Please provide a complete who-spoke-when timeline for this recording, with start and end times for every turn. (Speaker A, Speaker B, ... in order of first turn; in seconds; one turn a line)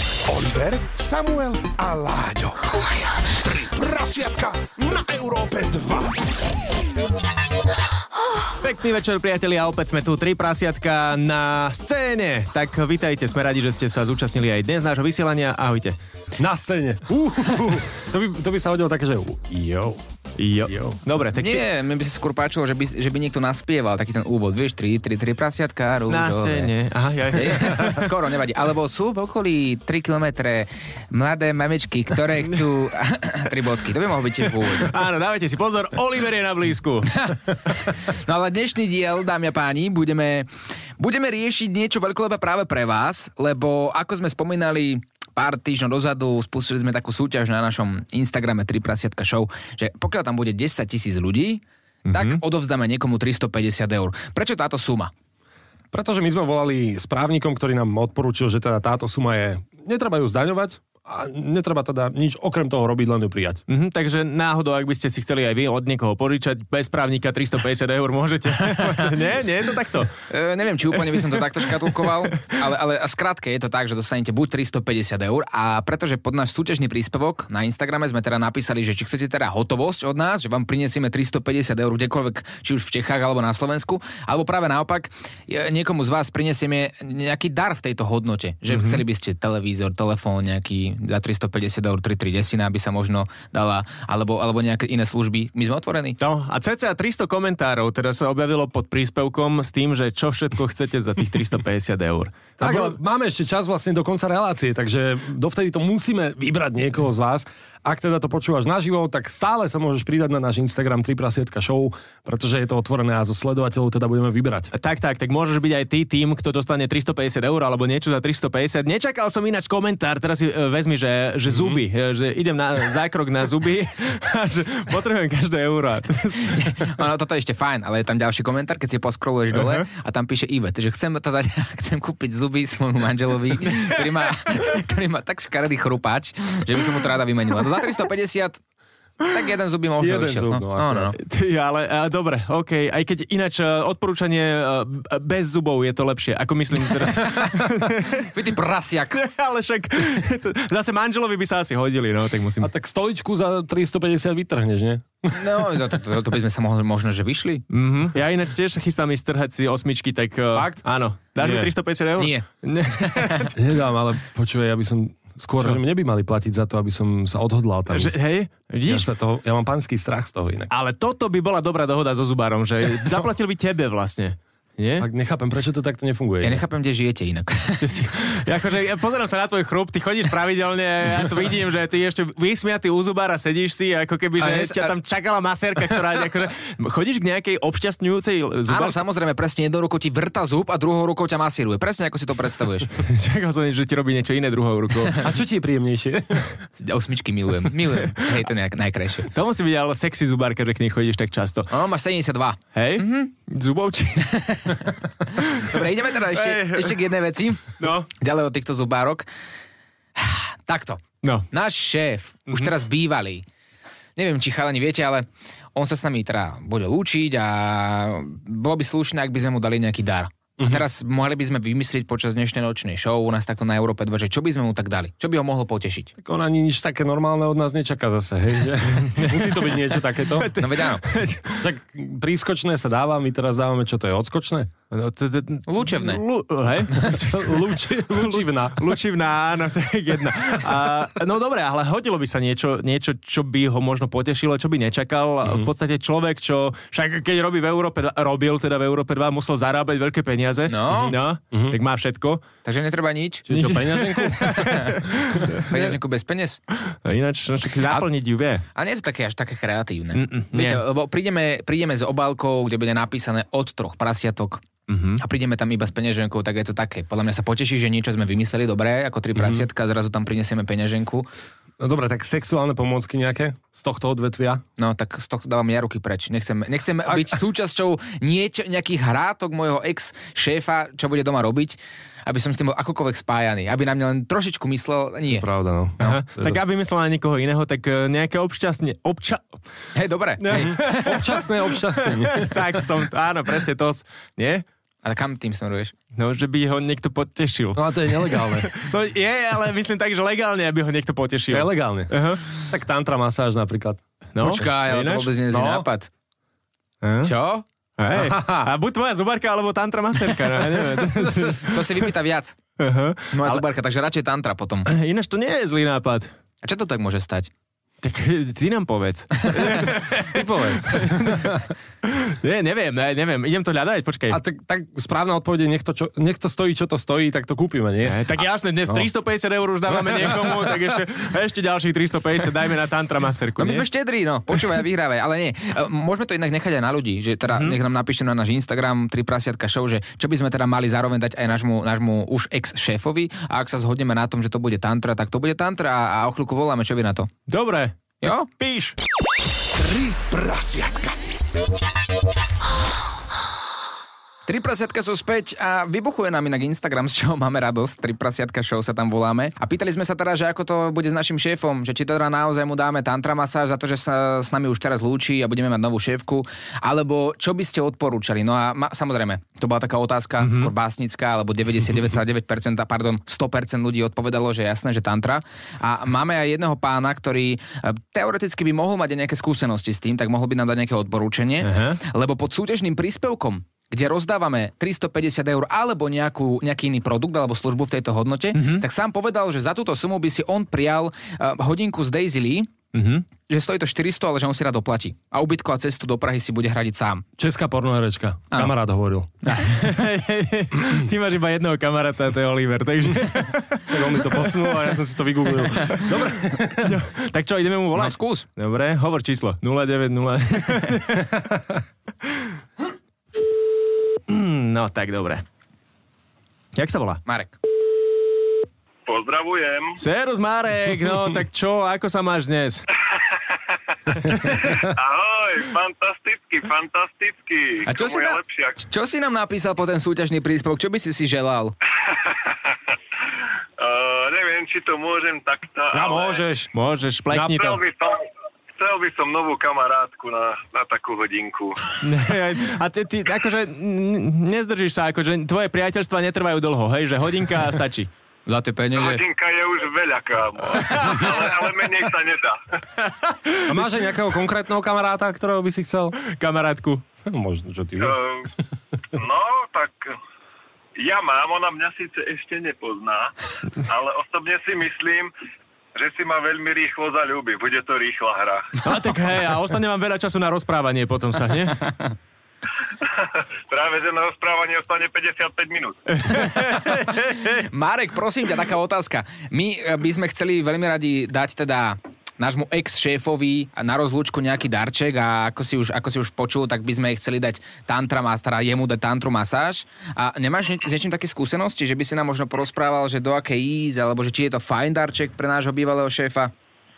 Speaker A: 0.3-2.6
Speaker A: 3.4-6.2
Speaker B: 8.6-16.0
Speaker C: 16.4-20.0
Speaker B: 20.4-21.7
Speaker C: 20.7-21.0
Speaker D: 21.4-26.7
Speaker B: 26.1-28.1
Speaker D: 27.3-34.9
Speaker B: 34.7-37.1
Speaker D: 37.2-40.5
Speaker D: 41.0-55.1
Speaker B: 52.0-52.4
Speaker C: 55.9-63.6
Speaker B: 63.7-70.1
Speaker D: 70.3-96.2
Speaker B: 88.7-89.0
Speaker B: 96.2-102.9
Speaker C: 102.6-114.7
Speaker B: 114.7-126.8
Speaker C: 121.5-121.8
Speaker D: 126.5-138.6
Speaker B: 129.6-129.8
Speaker D: 139.2-141.2
Speaker C: 140.0-141.1
Speaker B: 141.2-148.3
Speaker D: 148.3-149.2
Speaker B: 149.1-152.7
Speaker C: 152.6-155.7
Speaker D: 155.3-157.7
Speaker B: 157.7-163.5
Speaker C: 160.5-160.9
Speaker C: 161.4-161.7
Speaker D: 162.2-162.5
Speaker D: 163.0-163.3
Speaker C: 163.6-168.2
Speaker B: 167.9-169.1
Speaker C: 168.9-170.7
Speaker B: 170.7-175.1
Speaker C: 175.0-176.6
Speaker D: 176.4-178.2
Speaker B: 177.8-189.0
Speaker D: 184.4-184.9
Speaker D: 188.7-192.9
Speaker B: 193.0-195.2
Speaker C: 195.2-196.5
Speaker D: 196.8-199.3
Speaker B: 199.3-201.7
Speaker D: 201.7-203.3
Speaker B: 202.7-204.4
Speaker D: 204.2-209.3
Speaker B: 205.5-207.0
Speaker B: 207.8-208.1
Speaker D: 210.2-213.4
Speaker D: 214.2-226.1
Speaker C: 226.2-230.5
Speaker B: 229.1-229.7
Speaker B: 230.4-231.6
Speaker D: 230.6-231.0
Speaker C: 231.6-234.7
Speaker B: 234.9-252.4
Speaker D: 235.7-236.2
Speaker C: 237.1-238.9
Speaker D: 250.7-251.1
Speaker C: 251.5-251.8
Speaker D: 252.7-253.5
Speaker C: 253.5-254.8
Speaker B: 253.5-255.6
Speaker D: 255.6-256.6
Speaker B: 256.9-258.6
Speaker D: 258.8-264.7
Speaker B: 260.1-260.8
Speaker B: 264.9-265.2
Speaker D: 265.2-271.3
Speaker C: 269.4-269.6
Speaker C: 271.8-274.6
Speaker D: 274.8-285.4
Speaker C: 277.1-277.4
Speaker C: 285.3-286.6
Speaker B: 286.0-289.5
Speaker D: 289.9-291.1
Speaker B: 290.4-291.3
Speaker C: 290.5-292.7
Speaker B: 291.9-294.6
Speaker D: 295.0-295.9
Speaker B: 296.1-302.6
Speaker C: 297.8-298.7
Speaker C: 301.5-304.0
Speaker B: 304.4-305.3
Speaker D: 304.4-306.1
Speaker C: 305.5-305.9
Speaker B: 307.0-307.3
Speaker D: 307.2-307.6
Speaker B: 308.0-311.8
Speaker C: 308.1-308.7
Speaker D: 311.6-312.6
Speaker B: 312.8-313.6
Speaker D: 313.3-314.9
Speaker B: 314.9-316.3
Speaker D: 316.6-317.5
Speaker B: 318.0-324.4
Speaker C: 319.5-321.6
Speaker C: 324.3-328.2
Speaker B: 328.1-333.9
Speaker D: 333.6-347.3
Speaker B: 347.5-349.0
Speaker D: 348.2-348.5
Speaker A: 349.8-351.2
Speaker D: 354.5-392.7
Speaker B: 370.4-370.7
Speaker B: 381.6-382.0
Speaker B: 388.5-388.9
Speaker B: 392.9-393.2
Speaker D: 393.5-397.2
Speaker C: 397.4-399.3
Speaker D: 399.4-400.0
Speaker B: 399.7-404.5
Speaker C: 403.9-407.0
Speaker B: 406.8-411.3
Speaker D: 407.9-408.5
Speaker B: 414.3-415.4
Speaker B: 416.8-417.2
Speaker D: 417.2-417.6
Speaker E: 419.1-420.0
Speaker B: 420.0-422.8
Speaker E: 424.5-428.8
Speaker D: 427.9-431.8
Speaker E: 432.2-432.6
Speaker E: 433.8-436.5
Speaker C: 435.9-436.7
Speaker B: 436.7-437.8
Speaker C: 437.3-437.6
Speaker E: 437.4-438.2
Speaker E: 438.8-442.0
Speaker B: 442.0-448.1
Speaker D: 448.5-449.2
Speaker E: 448.9-452.6
Speaker B: 453.0-453.7
Speaker C: 453.7-456.2
Speaker B: 456.2-457.0
Speaker C: 457.2-458.2
Speaker E: 458.0-458.5
Speaker E: 459.1-460.2
Speaker E: 461.0-463.3
Speaker E: 463.9-465.3
Speaker E: 465.9-468.8
Speaker B: 468.8-471.9
Speaker E: 473.7-476.0
Speaker B: 476.1-477.6
Speaker D: 477.7-496.5